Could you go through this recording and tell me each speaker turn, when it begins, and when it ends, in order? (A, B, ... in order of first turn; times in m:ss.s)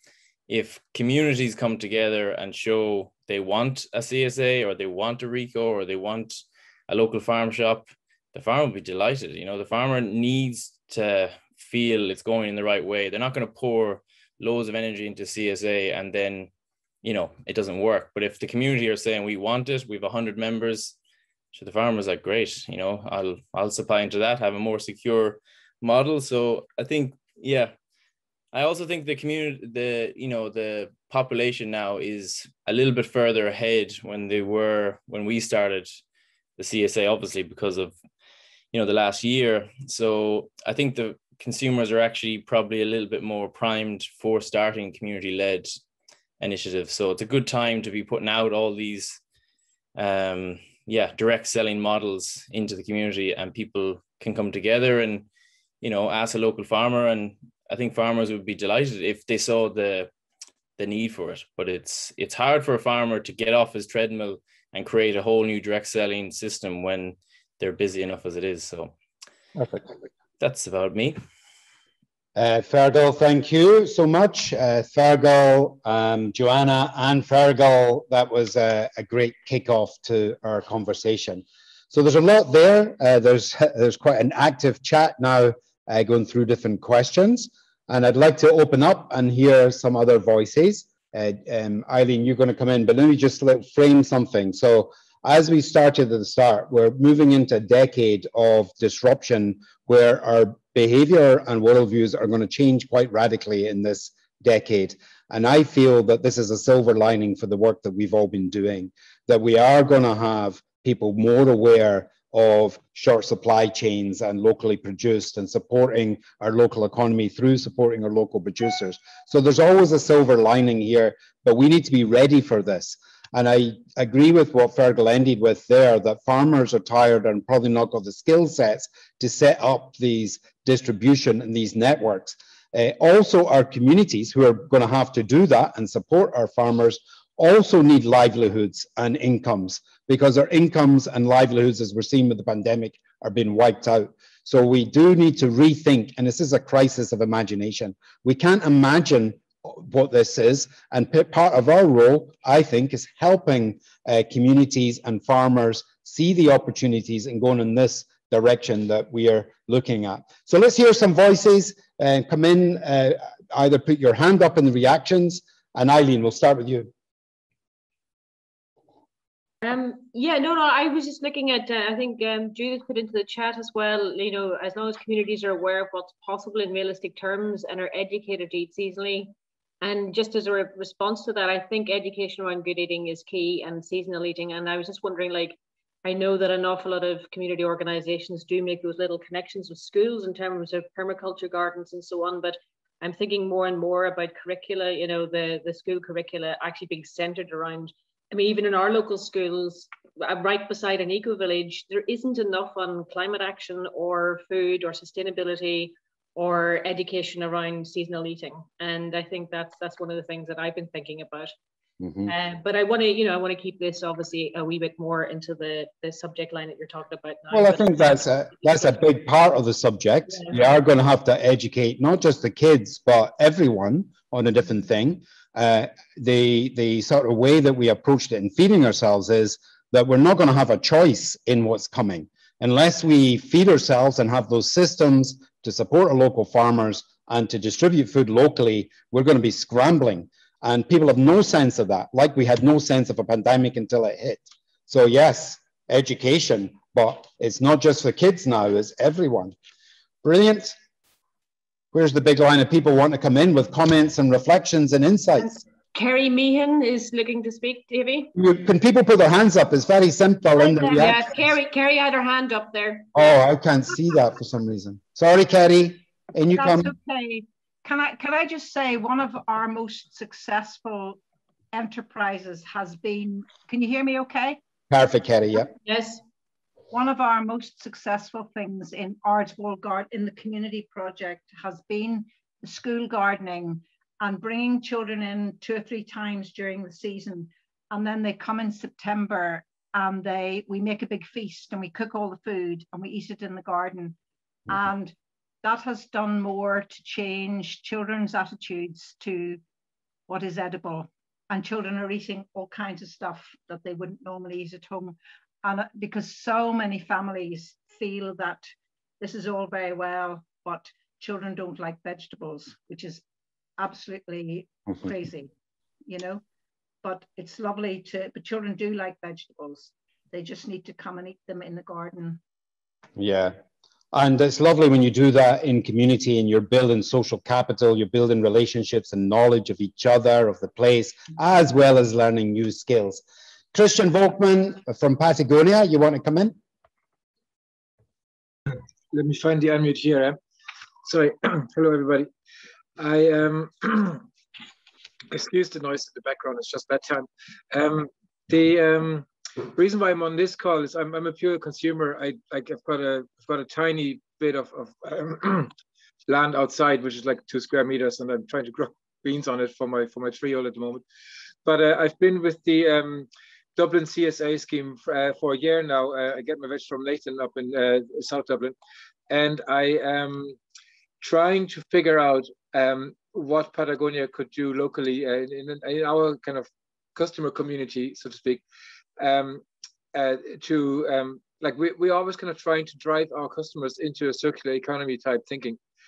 0:00.5-0:16.5 A
0:17.0-0:21.0 A
0:21.5-0:27.7 A
0:28.5-0:36.0 A
0:36.6-0:38.0 A
0:38.7-0:45.7 A
0:46.4-0:49.2 A
0:50.0-0:55.3 A
0:55.8-1:00.1 A
1:00.8-1:08.9 A
1:09.6-1:09.9 B
1:10.4-1:11.2 A
1:12.4-2:46.9 B
2:49.6-3:31.5 C
3:32.0-3:32.3 B
3:32.3-3:39.1 C
3:37.5-4:09.6 B
3:40.3-3:40.6 C
4:10.2-4:10.7 B
4:11.9-4:15.6 B
4:15.9-4:18.3 C
4:18.3-4:21.4 B
4:20.6-4:23.1 C
4:23.1-4:26.9 B
4:26.5-4:31.2 D
4:31.7-4:34.6 D
4:34.9-4:35.7 B
4:35.8-4:36.2 C
4:36.9-4:54.2 D
4:54.7-4:59.6 D
5:00.3-5:08.7 D
5:09.2-5:13.2 D
5:13.8-5:15.5 D
5:16.1-5:16.4 D
5:17.0-5:22.4 D
5:23.2-5:23.5 B
5:24.1-5:33.2 B
5:33.7-5:36.6 B
5:39.1-5:40.4 E
5:41.0-5:42.3 E
5:43.0-5:44.2 E
5:45.3-5:55.7 E
5:56.3-6:01.0 E
6:01.6-6:08.8 E
6:09.3-6:10.6 E
6:11.2-6:18.6 E
6:19.2-6:19.6 E
6:20.1-6:25.8 E